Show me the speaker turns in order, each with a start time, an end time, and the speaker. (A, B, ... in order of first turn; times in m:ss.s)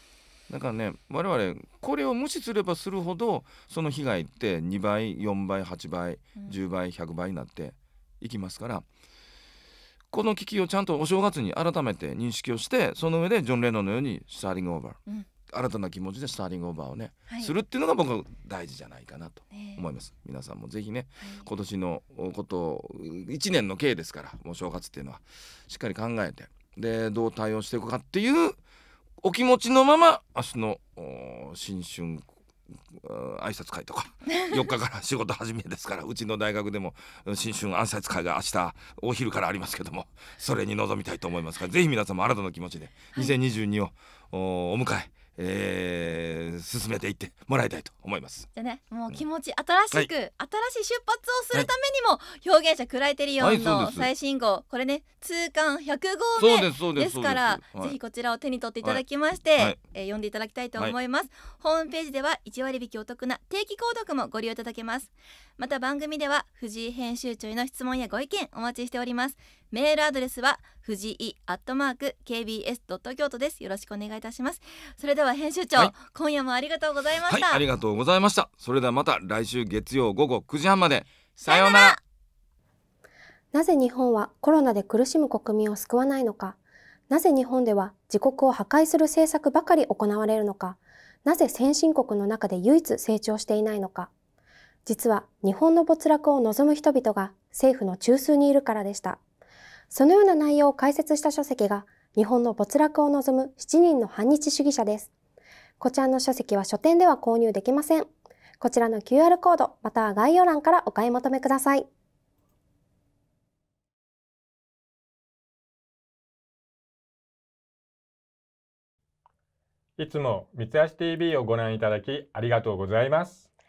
0:00.5-0:08.8 A
0:10.1-0:28.6 A
0:19.5-0:19.8 B
0:21.2-0:21.5 B
0:29.2-0:32.3 A
0:32.9-0:48.5 A
0:34.3-0:34.6 B
0:48.5-1:17.6 B
0:53.4-0:54.1 A
0:56.4-0:58.0 A
1:17.3-1:22.0 A
1:21.4-1:22.0 B
1:23.5-1:26.6 C
1:27.1-1:34.1 C
1:34.8-1:39.2 C
1:39.9-1:45.1 C
1:45.8-1:51.9 C
2:00.0-2:03.4 D